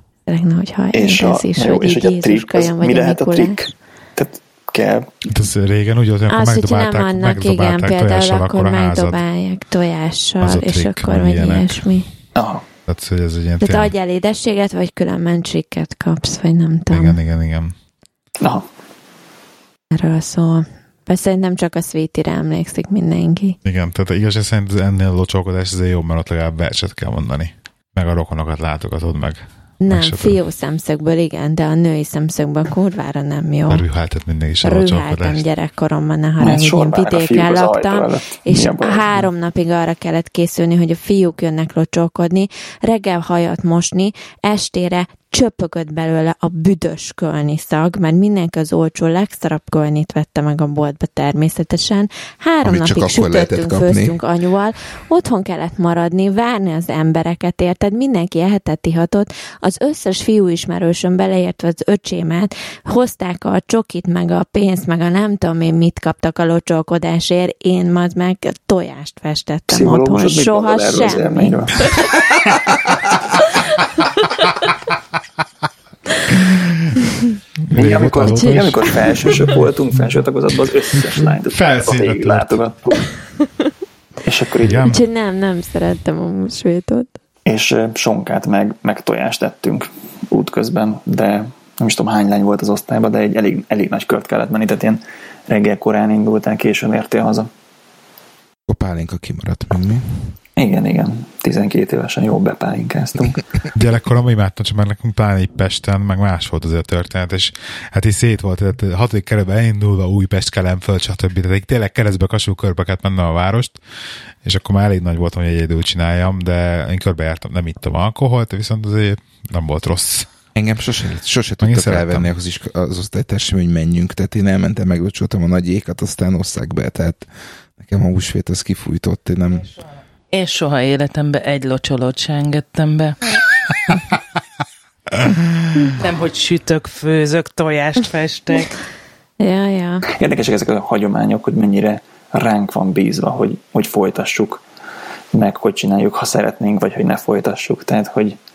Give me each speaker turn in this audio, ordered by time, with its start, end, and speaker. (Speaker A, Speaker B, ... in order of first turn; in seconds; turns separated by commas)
Speaker A: 0.2-3.6, Speaker B: 0.9-5.1, Speaker C: 5.3-9.2, Speaker A: 6.3-12.1, Speaker C: 10.4-11.9, Speaker B: 12.3-12.6, Speaker C: 12.9-13.9, Speaker A: 13.6-17.2, Speaker C: 16.9-17.7, Speaker B: 18.4-18.6, Speaker A: 19.9-23.6, Speaker C: 23.6-30.4, Speaker A: 29.8-33.8, Speaker C: 33.7-35.4, Speaker A: 34.6-71.9, Speaker B: 36.4-39.3, Speaker D: 52.6-54.2, Speaker B: 69.7-71.9, Speaker C: 76.3-76.9, Speaker C: 77.7-79.6, Speaker B: 77.7-83.0, Speaker A: 78.2-78.6, Speaker C: 81.1-82.6, Speaker B: 84.2-84.9, Speaker C: 84.6-85.0, Speaker A: 84.8-87.1, Speaker B: 87.5-97.5, Speaker D: 98.7-100.3, Speaker B: 100.6-103.4, Speaker C: 103.7-113.8, Speaker C: 114.4-120.3, Speaker D: 120.5-129.7, Speaker C: 121.6-122.3, Speaker E: 130.3-133.2, Speaker C: 135.2-135.9, Speaker E: 136.0-138.7, Speaker A: 139.4-140.1, Speaker B: 140.1-144.6, Speaker B: 145.3-148.4